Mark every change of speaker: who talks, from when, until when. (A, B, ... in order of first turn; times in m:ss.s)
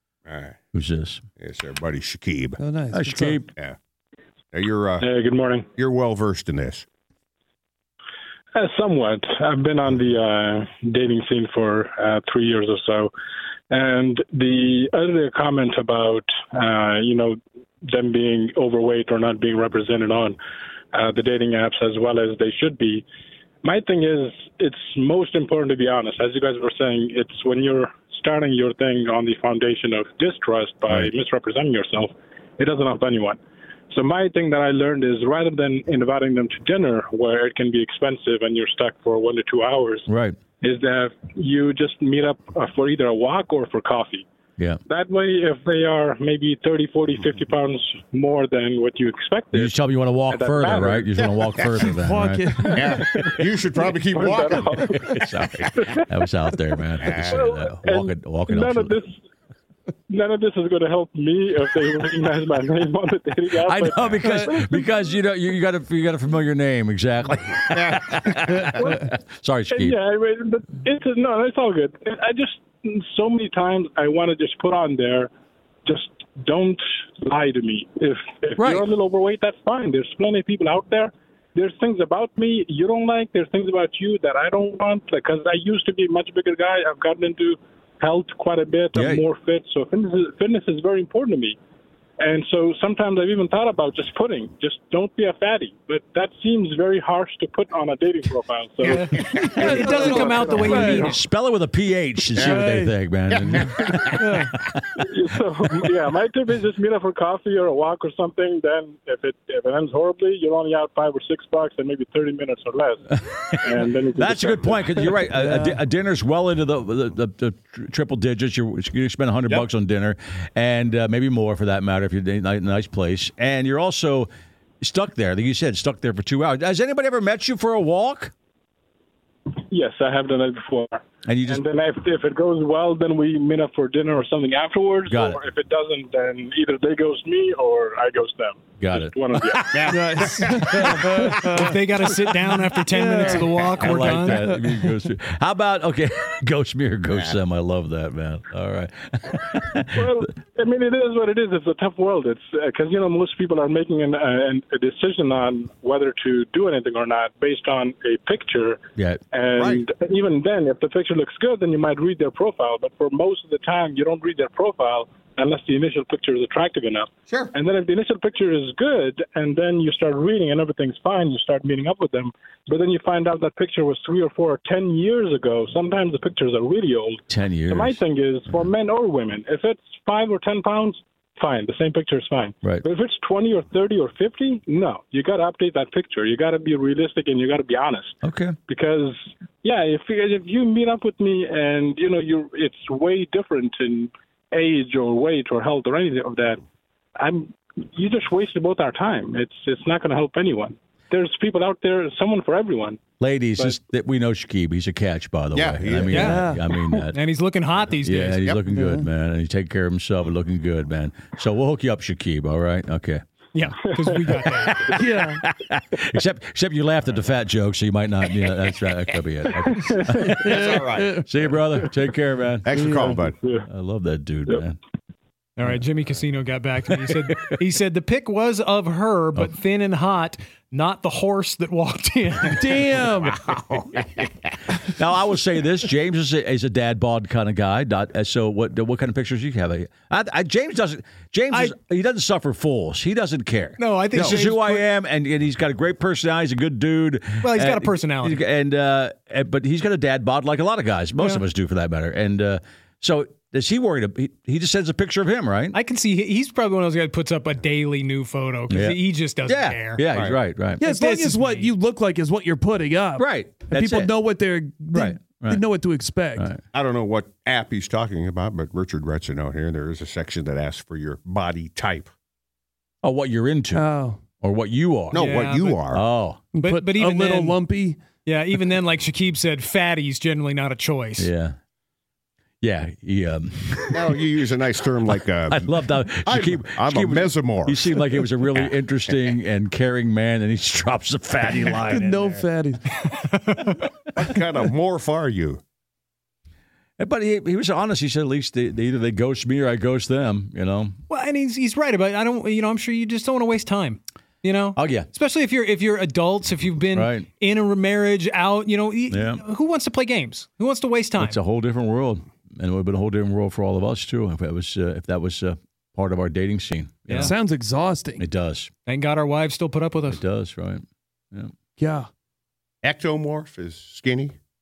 0:00.3-0:00.6 A
0:00.7-0:01.2 B
0:01.4-0:02.6 A
0:02.6-0:03.4 C
0:02.9-0:03.5 B
0:04.5-0:05.1 A
0:05.0-0:05.7 D
0:05.8-0:06.8 A
0:08.5-0:13.1 D
0:13.7-0:20.4 D
0:20.9-0:23.0 D
0:23.6-0:33.4 D
0:33.9-0:40.1 D
0:40.1-0:40.4 B
0:40.6-0:44.3 D
0:44.9-0:49.8 D
0:49.5-0:52.8 B
0:50.3-0:51.2 D
0:51.9-0:53.0 C
0:52.7-0:55.0 A
0:54.0-0:56.0 D
0:55.0-0:59.0 B
0:57.0-0:57.4 A
0:57.2-0:59.2 D
1:00.1-1:04.8 D
1:03.6-1:10.0 B
1:04.2-1:04.7 C
1:07.7-1:08.7 A
1:09.7-1:15.3 D
1:15.8-1:31.6 D
1:18.6-1:18.9 B
1:29.0-1:29.2 B
1:32.2-1:40.5 D
1:38.9-1:39.9 A
1:38.9-1:41.2 E
1:39.5-1:41.2 C
1:40.5-1:44.8 B
1:42.4-1:43.0 C
1:42.4-1:42.7 A
1:43.3-1:44.5 A
1:43.5-1:44.6 C
1:45.0-1:55.1 D
1:53.1-2:04.3 B
1:55.3-1:55.8 C
2:04.8-2:08.3 B
2:09.6-2:20.2 D
2:11.3-2:11.6 B
2:15.1-2:15.4 B
2:18.8-2:21.3 B
2:19.7-2:20.0 A
2:19.9-2:21.8 C
2:21.3-2:24.5 E
2:22.8-2:24.9 C
2:23.8-2:30.3 B
2:29.9-2:38.8 D
2:39.3-3:16.6 D
2:39.6-2:39.8 A
2:47.3-2:47.5 A
2:57.3-2:58.5 B
3:08.2-3:08.6 B
3:17.2-3:23.0 D
3:23.2-3:27.2 B
3:25.5-3:26.4 A
3:26.1-3:26.6 C
3:26.1-3:28.4 E
3:28.0-3:33.2 B
3:28.7-3:29.1 C
3:33.6-3:34.8 E
3:33.9-3:34.7 D
3:34.4-3:42.7 B
3:35.0-3:35.4 C
3:39.7-3:40.4 D
3:40.3-3:41.6 C
3:40.5-3:41.2 A
3:42.6-3:43.4 A
3:42.7-3:43.2 C
3:43.4-3:43.7 D
3:43.7-3:44.8 B
3:45.6-3:52.8 E
3:47.3-3:47.5 B
3:52.5-3:53.4 C
3:53.3-3:54.5 A
3:54.9-4:15.8 B
4:03.8-4:04.8 E
4:07.4-4:08.4 E
4:15.7-4:20.0 E
4:18.7-4:20.8 B
4:20.1-4:20.4 A
4:20.8-4:26.5 C
4:20.8-4:21.7 E
4:23.2-4:24.1 B
4:24.9-4:25.6 B
4:26.7-4:32.1 A
4:33.0-4:33.9 B
4:33.7-4:34.2 C
4:34.4-4:35.2 B
4:35.1-4:36.0 A
4:35.1-4:35.8 E
4:35.9-4:36.4 B
4:36.5-4:38.0 C
4:36.6-4:37.6 E
4:38.3-4:41.3 E
4:41.2-4:41.6 B
4:42.6-4:44.2 B
4:43.9-4:48.6 A
4:45.5-4:52.2 B
4:51.8-4:52.8 C
4:53.1-4:53.8 E
4:54.2-4:55.6 A
4:57.0-5:01.0 B
5:01.1-5:11.4 E
5:04.8-5:05.1 B
5:07.0-5:07.3 B
5:09.1-5:09.4 B
5:11.2-5:17.4 B
5:17.1-5:17.3 E
5:17.1-5:18.2 C
5:18.2-5:18.7 B
5:18.9-5:20.2 E
5:20.1-5:21.5 B
5:21.8-5:22.1 C
5:22.8-5:24.4 A